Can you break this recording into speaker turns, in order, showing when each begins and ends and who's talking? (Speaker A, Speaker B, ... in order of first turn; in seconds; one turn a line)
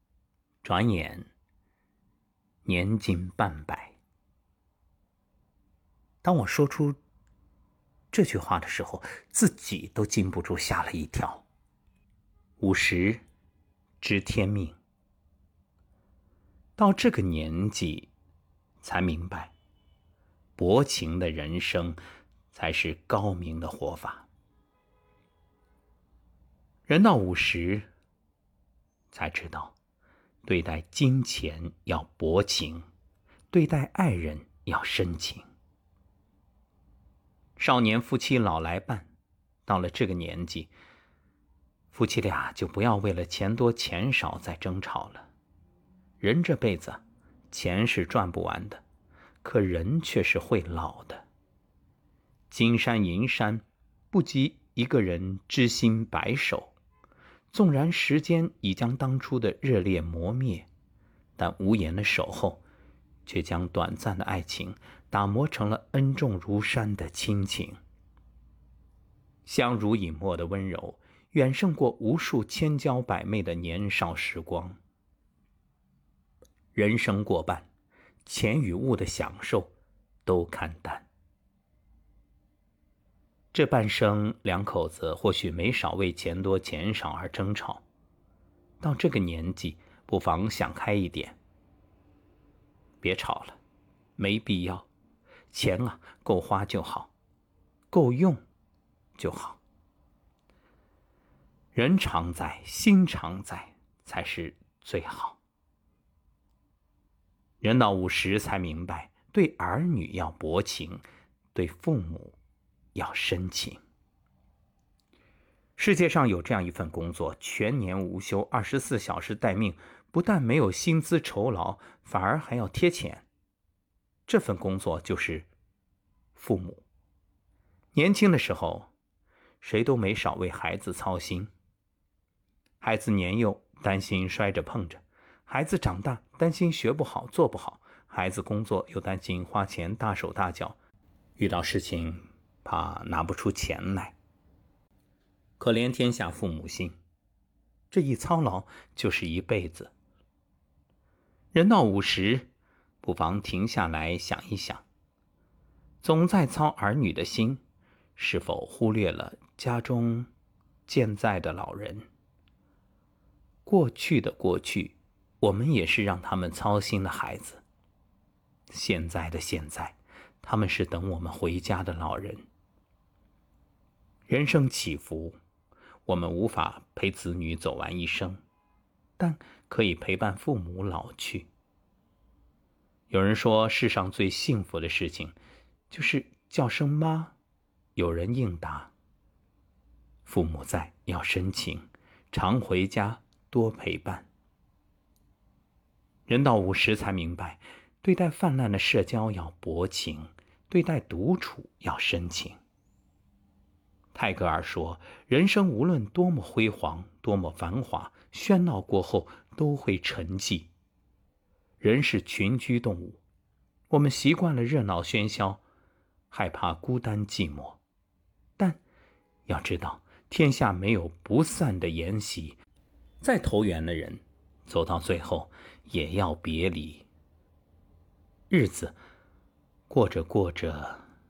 Speaker A: 0.6-1.3
Speaker A: 2.6-4.0
Speaker A: 6.2-7.0
Speaker A: 8.1-11.4
Speaker A: 12.6-13.2
Speaker A: 14.0-14.8
Speaker A: 16.8-18.1
Speaker A: 18.8-19.5
Speaker A: 20.6-22.0
Speaker A: 22.5-24.3
Speaker A: 26.9-27.9
Speaker A: 29.1-29.8
Speaker A: 30.4-32.9
Speaker A: 33.5-35.5
Speaker A: 37.6-39.1
Speaker A: 39.7-40.7
Speaker A: 41.9-45.3
Speaker A: 46.2-48.8
Speaker A: 49.4-51.2
Speaker A: 52.5-56.7
Speaker A: 57.5-60.7
Speaker A: 61.4-62.6
Speaker A: 63.2-67.8
Speaker A: 69.5-74.8
Speaker A: 76.7-77.7
Speaker A: 78.2-79.7
Speaker A: 80.2-81.1
Speaker A: 83.5-87.8
Speaker A: 88.8-91.4
Speaker A: 93.0-93.6
Speaker A: 94.2-94.9
Speaker A: 95.5-97.1
Speaker A: 97.9-98.4
Speaker A: 99.2-99.6
Speaker A: 101.7-105.4
Speaker A: 107.6-112.4
Speaker A: 113.0-113.8
Speaker A: 115.8-123.2
Speaker A: 124.3-125.5
Speaker A: 126.3-126.8
Speaker A: 127.9-128.9
Speaker A: 129.6-131.5
Speaker A: 132.8-140.8
Speaker A: 141.4-144.2
Speaker A: 145.6-147.0
Speaker A: 147.9-149.9
Speaker A: 151.5-152.5
Speaker A: 153.0-154.8
Speaker A: 156.0-157.6
Speaker A: 158.2-160.3
Speaker A: 160.9-162.1
Speaker A: 163.7-167.6
Speaker A: 168.7-172.5
Speaker A: 174.3-175.4
Speaker A: 176.1-178.4
Speaker A: 179.2-181.5
Speaker A: 183.1-185.3
Speaker A: 185.9-187.3
Speaker A: 188.0-188.9
Speaker A: 190.2-194.3
Speaker A: 196.3-202.6
Speaker A: 204.1-210.7
Speaker A: 211.8-213.2
Speaker A: 213.9-215.6
Speaker A: 216.3-217.8
Speaker A: 219.5-222.6
Speaker A: 223.2-227.1
Speaker A: 228.5-229.0
Speaker A: 229.9-231.0